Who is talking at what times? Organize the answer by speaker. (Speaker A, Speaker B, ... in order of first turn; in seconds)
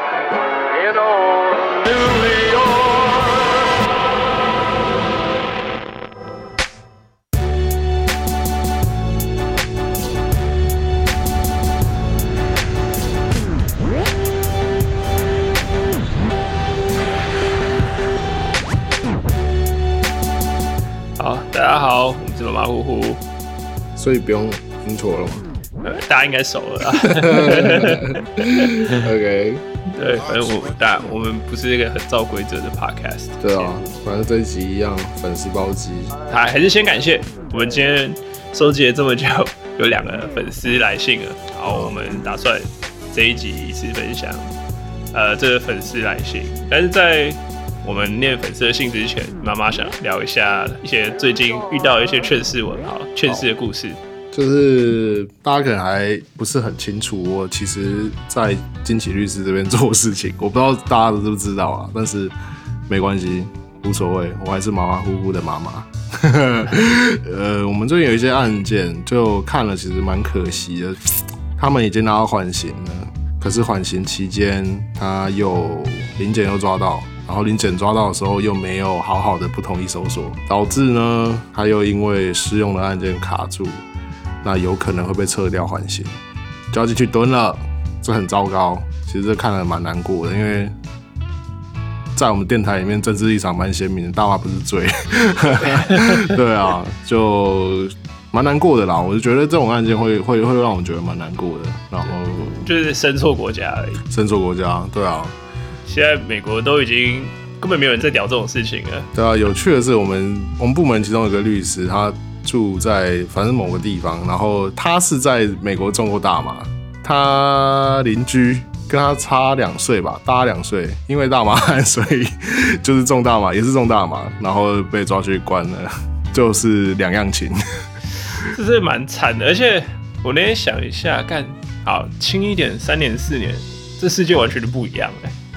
Speaker A: 0.5-3.3
Speaker B: 21.2-23.2, 25.8-28.9, 29.9-33.8, 36.3-44.5, 45.1-54.0, 95.6-96.3, 102.6-104.0, 105.9-109.1, 128.4-135.3
Speaker C: 23.9-25.4, 27.0-29.6, 33.4-36.1, 54.3-62.3, 62.9-83.8, 84.4-86.2, 86.7-90.8, 92.2-102.7, 104.1-105.3, 109.1-127.6